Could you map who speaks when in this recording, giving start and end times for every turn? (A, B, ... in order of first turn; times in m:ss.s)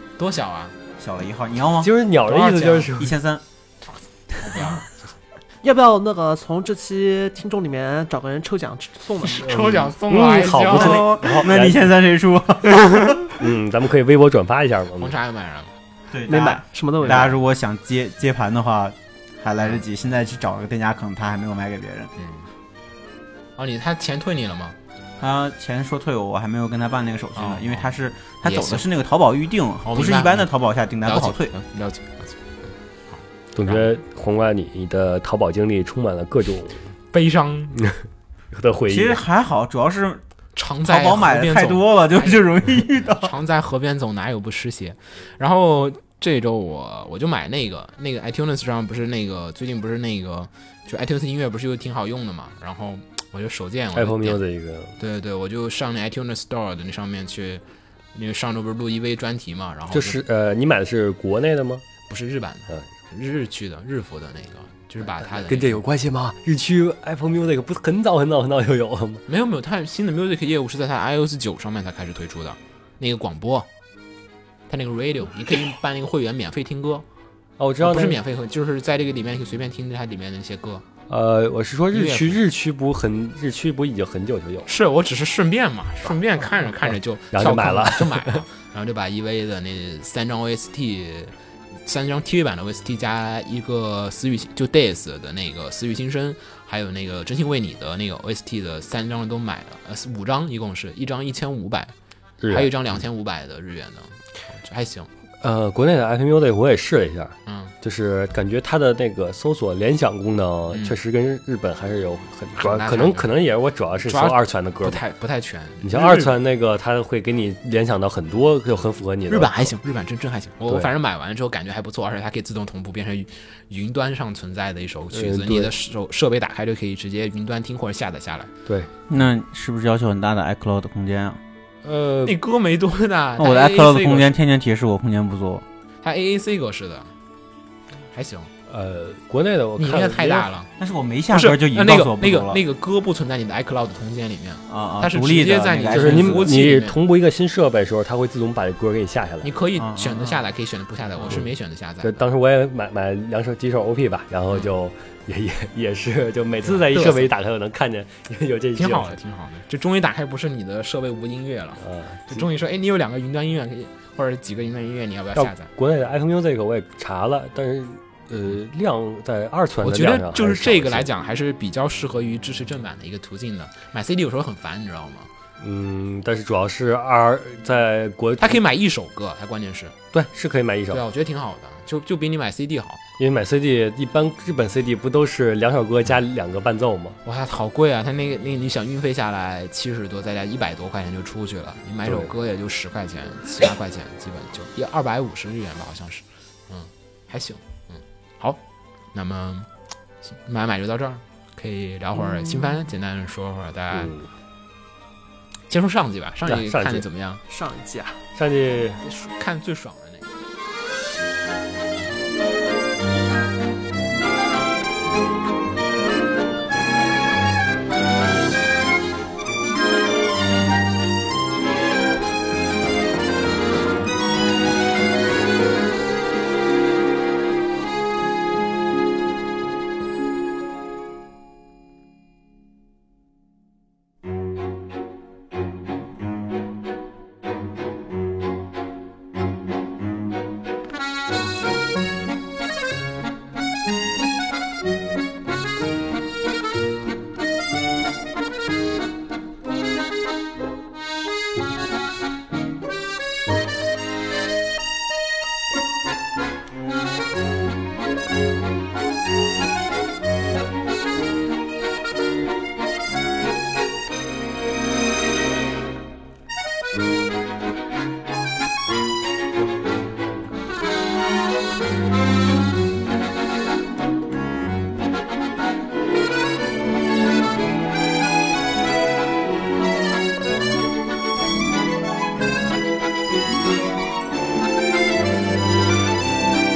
0:00.2-0:00.8 A
0:01.0-0:01.9 B
0:01.8-0:03.2 C
0:02.2-0:02.9 A
0:03.0-0:03.4 B
0:04.4-0:04.8 A
0:05.6-0:09.9 D
0:09.2-0:11.4 A
0:09.4-0:11.9 C
0:10.4-0:13.2 B
0:13.3-0:15.2 C
0:15.0-0:15.7 A
0:16.1-0:22.1 B
0:16.3-0:17.3 D
0:22.2-0:22.5 A
0:23.6-0:24.8 A
0:25.2-0:31.5 B
0:27.4-0:27.9 A
0:28.4-0:28.8 A
0:29.9-0:30.4 A
0:31.0-0:32.6 A
0:33.5-0:36.9 C
0:37.1-0:37.8 A
0:37.8-0:39.2 C
0:38.9-0:40.2 B
0:40.5-0:42.4 A
0:40.8-0:43.3 B
0:43.2-0:54.4 A
0:53.9-0:55.0 C
0:55.0-0:57.6 A
0:58.1-1:00.2 A
0:59.9-1:01.8 C
1:02.1-1:05.8 A
1:05.2-1:09.2 C
1:09.3-1:13.7 A
1:14.7-1:17.0 A
1:17.6-1:18.2 C
1:17.8-1:20.8 A
1:21.1-1:24.7 C
1:21.9-1:22.4 A
1:24.6-1:31.3 A
1:26.8-1:28.4 C
1:31.8-1:41.9 A
1:42.4-1:42.7 C
1:42.5-1:45.1 A
1:45.4-1:55.0 C
1:47.4-1:47.7 A
1:52.6-1:53.3 A
1:54.0-1:56.3 A
1:55.8-1:59.7 C
1:59.3-2:08.5 A
2:05.1-2:05.7 C
2:09.1-2:11.4 B
2:11.8-2:12.4 C
2:12.2-2:14.3 A
2:13.4-2:15.6 B
2:16.0-2:17.1 A
2:18.1-2:18.5 A
2:18.7-2:20.5 C
2:19.8-2:20.7 A
2:20.8-2:22.6 B
2:21.3-2:27.0 A
2:24.7-2:26.7 B
2:25.9-2:29.5 C
2:29.4-2:32.2 A
2:29.7-2:30.4 B
2:32.0-2:39.2 C
2:36.6-2:37.3 A
2:38.8-2:45.7 A
2:41.8-2:42.5 C
2:45.4-2:51.1 C
2:49.8-2:55.3 A
2:55.6-2:58.6 C
2:58.4-3:00.0 A
3:00.1-3:01.0 C
3:00.9-3:03.0 A
3:03.2-3:07.2 C
3:07.2-3:18.6 A
3:12.0-3:12.3 C
3:19.1-3:19.7 A
3:20.2-3:24.1 A
3:23.9-3:24.3 C
3:25.7-3:27.4 A
3:26.4-3:27.0 C
3:27.5-3:28.2 D
3:28.3-3:29.0 C
3:29.0-3:30.3 A